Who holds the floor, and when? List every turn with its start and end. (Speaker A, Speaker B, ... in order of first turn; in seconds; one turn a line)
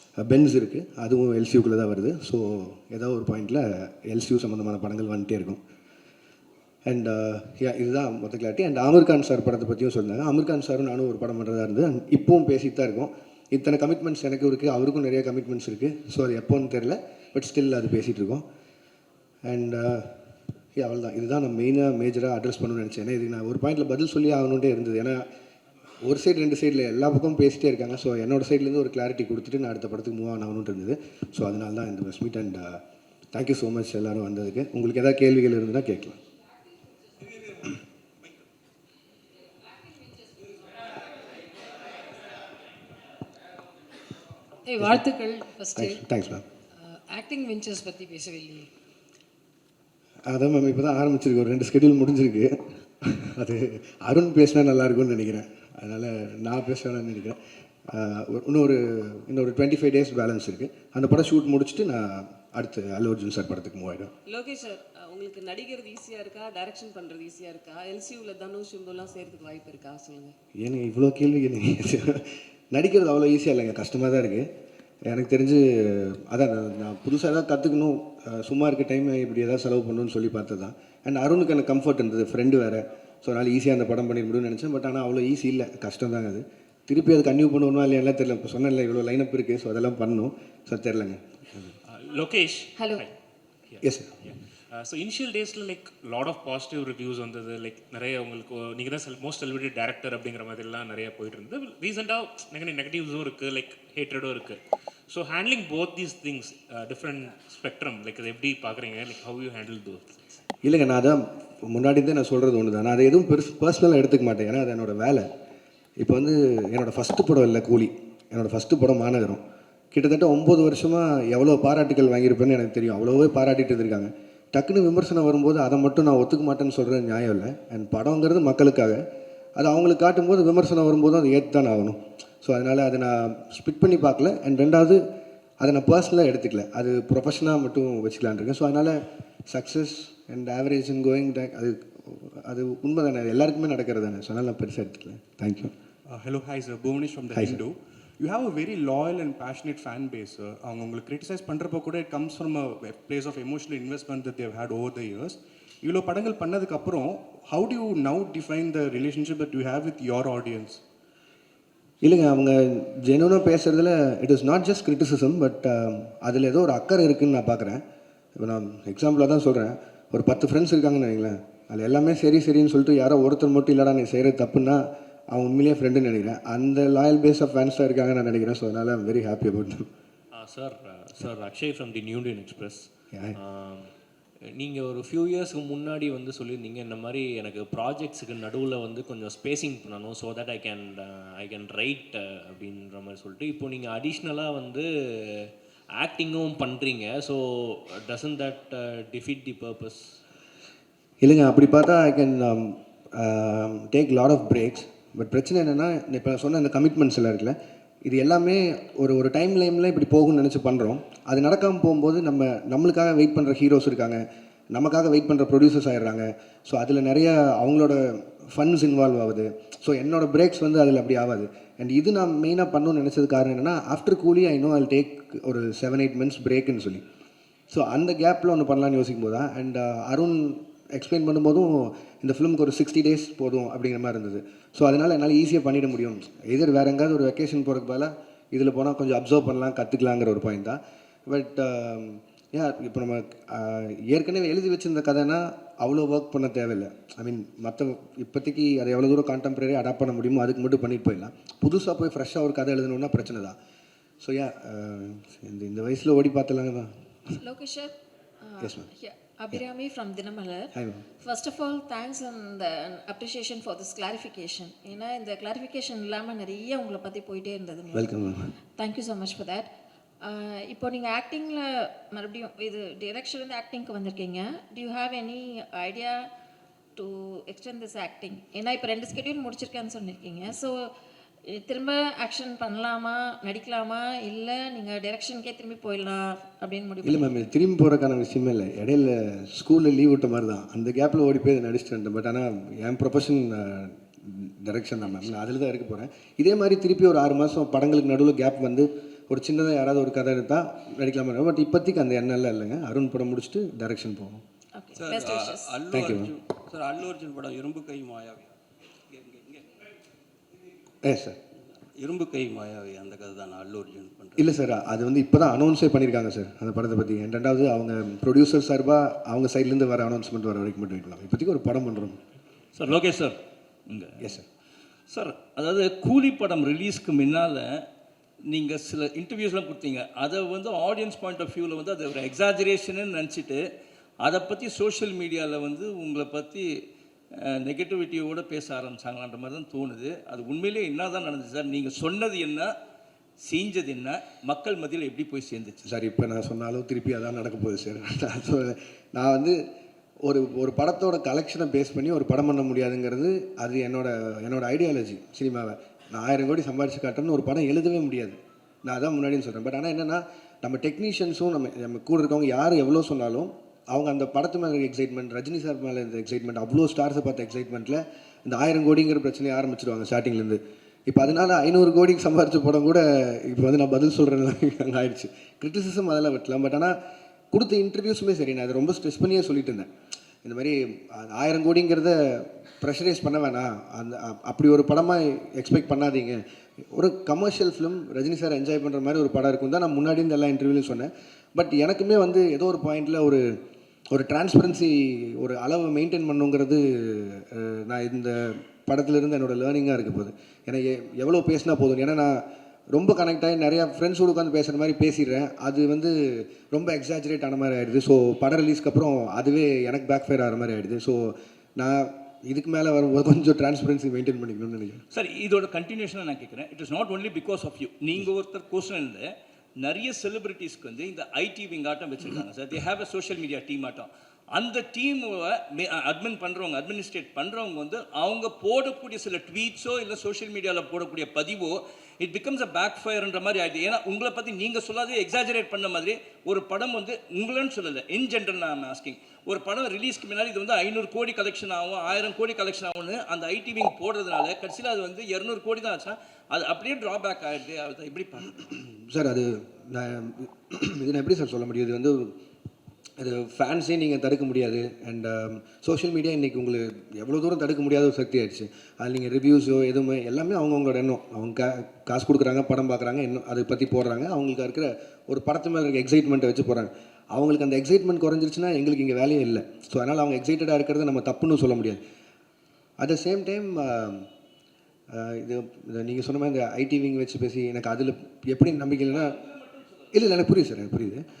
Speaker A: 0.2-5.6
Speaker A: 6.9-18.4
Speaker A: 19.5-20.1
Speaker A: 20.8-25.2
Speaker A: 26.0-32.8
Speaker A: 33.3-36.2
Speaker B: 44.6-46.0
Speaker A: 44.8-45.0
Speaker A: 45.8-46.4
Speaker B: 46.8-48.7
Speaker A: 50.3-64.1
Speaker C: 64.3-70.3
Speaker A: 70.6-74.5
Speaker A: 75.1-91.2
Speaker D: 91.8-93.1
Speaker E: 92.8-93.0
Speaker D: 93.7-110.1
Speaker A: 93.8-94.1
Speaker A: 110.6-115.3
Speaker A: 116.0-119.4
Speaker A: 119.9-129.0
Speaker A: 129.6-135.0
Speaker A: 135.6-145.7
Speaker F: 146.1-160.8
Speaker A: 147.3-147.6
Speaker A: 162.0-167.8
Speaker A: 168.4-179.9
Speaker G: 180.3-183.9
Speaker A: 183.1-183.4
Speaker G: 184.6-195.5
Speaker G: 196.0-200.1
Speaker A: 201.2-207.5
Speaker A: 208.1-214.2
Speaker A: 214.7-227.0
Speaker A: 227.7-253.6
Speaker A: 254.2-256.9
Speaker E: 257.4-268.1
Speaker A: 258.6-258.9
Speaker A: 260.7-261.0
Speaker A: 267.9-268.5
Speaker E: 268.7-269.7
Speaker E: 270.2-276.3
Speaker E: 276.9-280.9
Speaker E: 281.5-287.3
Speaker A: 287.0-304.4
Speaker E: 304.7-305.7
Speaker H: 304.9-308.5
Speaker A: 305.9-306.3
Speaker H: 309.1-309.6
Speaker A: 311.0-311.4
Speaker H: 312.0-314.5
Speaker A: 314.4-322.2
Speaker I: 322.7-324.2
Speaker I: 325.1-327.8
Speaker I: 328.5-333.6
Speaker I: 334.2-336.7
Speaker I: 337.3-342.7
Speaker I: 343.4-345.8
Speaker A: 345.8-349.6
Speaker A: 350.2-376.9
Speaker A: 377.5-379.9
Speaker A: 380.4-393.4
Speaker A: 394.1-415.0
Speaker I: 415.1-419.3
Speaker I: 419.8-448.6
Speaker A: 449.1-452.3
Speaker A: 453.2-472.0
Speaker A: 473.0-474.3
Speaker A: 475.1-479.4
Speaker A: 480.1-481.2